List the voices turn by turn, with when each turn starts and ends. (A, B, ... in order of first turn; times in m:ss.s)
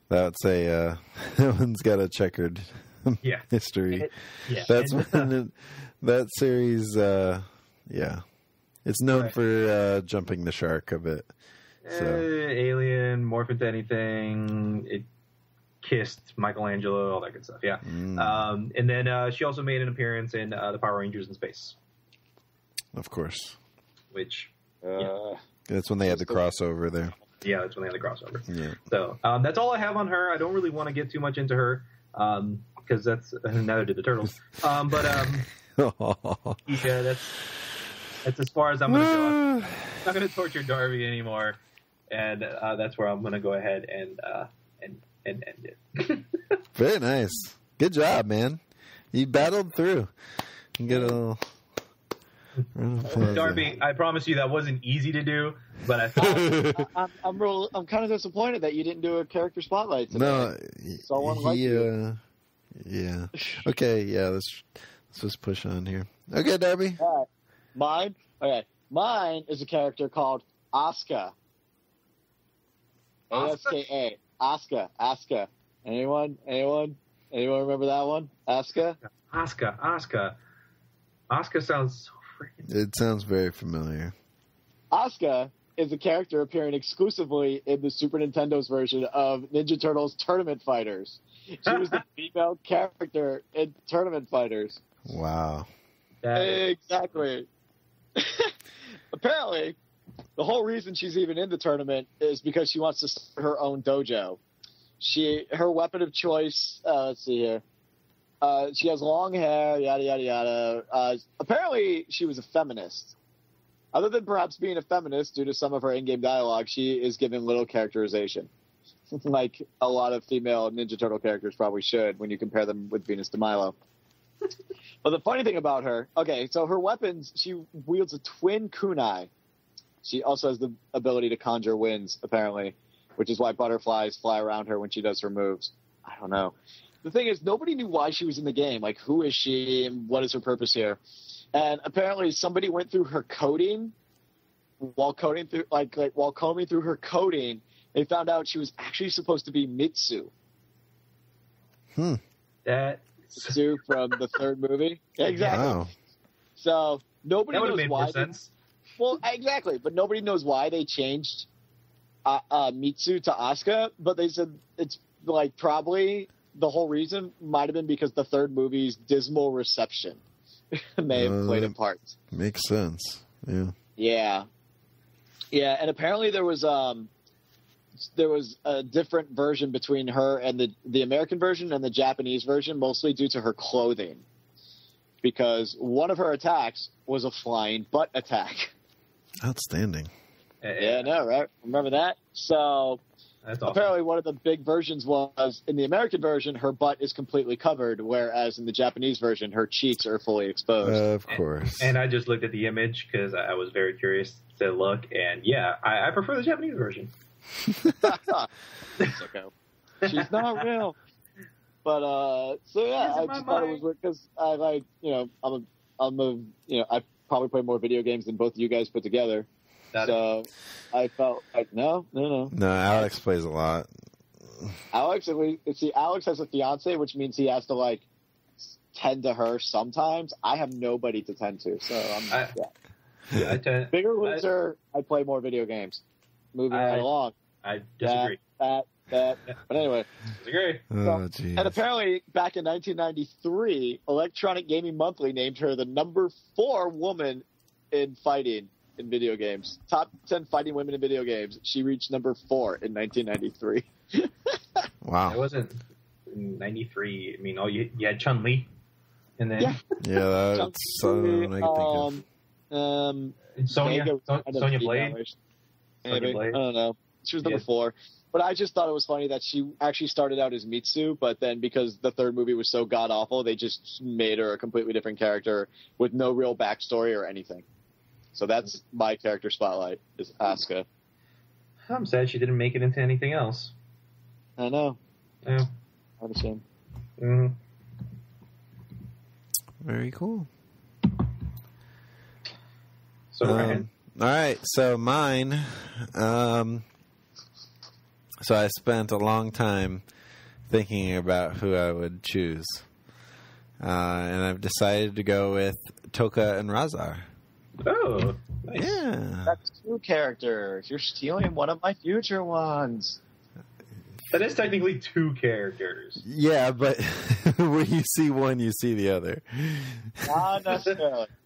0:00.1-0:08.2 A
0:03.2-0:05.3 B
0:08.8-0:11.3 A
0:09.1-0:09.4 B
0:11.8-0:15.0 B
0:11.9-0:12.3 A
0:15.8-0:21.8 B
0:17.8-0:18.5 A
0:22.9-0:23.6 A
0:24.1-0:25.1 B
0:24.8-0:25.4 C
0:25.7-0:27.2 A
0:26.1-0:26.4 C
0:27.4-0:35.5 B
0:28.5-0:28.8 A
0:35.8-0:36.9 A
0:36.7-0:37.4 B
0:38.2-0:41.6 B
0:38.9-0:39.8 A
0:42.1-0:46.4 B
0:46.7-0:48.6 A
0:49.1-0:50.1 A
0:50.8-0:51.5 A
0:52.7-0:53.7 A
0:53.2-0:56.7 B
0:56.2-1:01.9 C
0:56.4-0:56.8 A
1:00.1-1:02.2 A
1:02.8-1:07.0 A
1:07.0-1:11.3 C
1:13.3-1:13.8 B
1:13.3-1:19.0 C
1:19.3-1:20.4 B
1:21.3-1:22.7 B
1:22.6-1:24.1 A
1:24.9-1:34.8 C
1:31.7-1:32.0 B
1:35.0-1:35.7 A
1:36.2-1:36.6 B
1:36.3-1:37.5 C
1:38.2-1:38.5 C
1:39.1-1:39.8 C
1:40.4-1:44.4 C
1:45.0-1:47.6 C
1:48.4-1:53.1 C
1:53.9-1:58.5 C
1:59.1-2:03.7 C
2:05.0-2:09.3 C
2:10.0-2:21.0 C
2:21.5-2:23.9 C
2:24.8-2:30.3 C
2:31.9-2:32.2 A
2:32.6-2:33.6 B
2:33.4-2:35.7 C
2:35.2-2:35.7 B
2:35.4-2:35.9 A
2:36.6-2:38.3 C
2:37.5-2:38.5 B
2:39.0-2:41.5 C
2:42.3-2:50.2 C
2:50.7-2:52.2 C
2:51.1-2:51.7 A
2:52.3-2:53.7 A
2:54.0-2:54.5 C
2:55.5-2:57.1 C
2:58.0-3:04.2 C
3:05.2-3:08.7 C
3:09.4-3:10.1 A
3:10.6-3:11.1 B
3:10.8-3:13.0 C
3:13.4-3:13.9 B
3:13.6-3:21.0 C
3:20.8-3:21.9 A
3:21.3-3:27.1 B
3:28.0-3:28.5 C
3:29.0-3:29.5 C
3:30.0-3:31.0 C
3:30.1-3:30.6 B
3:31.8-3:39.5 C
3:33.0-3:33.8 B
3:40.0-3:42.5 C
3:42.5-3:43.9 A
3:44.9-3:48.0 C
3:48.7-3:52.7 C
3:53.3-3:54.4 B
3:53.9-3:56.0 C
3:56.5-3:57.3 C
3:56.7-3:57.1 B
3:57.6-3:58.4 B
3:58.0-4:00.1 C
4:00.4-4:00.8 B
4:00.9-4:01.8 A
4:01.0-4:14.8 C
4:15.0-4:15.4 A
4:15.3-4:18.7 B
4:19.4-4:19.8 B
4:20.0-4:22.1 A
4:20.5-4:25.3 C
4:23.6-4:25.2 B
4:26.0-4:37.6 C
4:26.1-4:26.6 B
4:38.3-4:40.8 C
4:41.9-4:43.7 B
4:44.6-4:45.0 C
4:45.4-4:45.7 B
4:46.2-4:46.6 C
4:47.2-4:47.6 B
4:49.8-4:50.5 A
4:53.3-4:53.9 B
4:53.4-4:56.8 A
4:58.4-5:00.0 A
5:00.7-5:02.9 A
5:03.8-5:07.3 A
5:07.8-5:09.0 B
5:08.7-5:09.6 A
5:09.4-5:13.2 C
5:14.3-5:16.2 B
5:16.2-5:20.4 A
5:20.3-5:21.3 C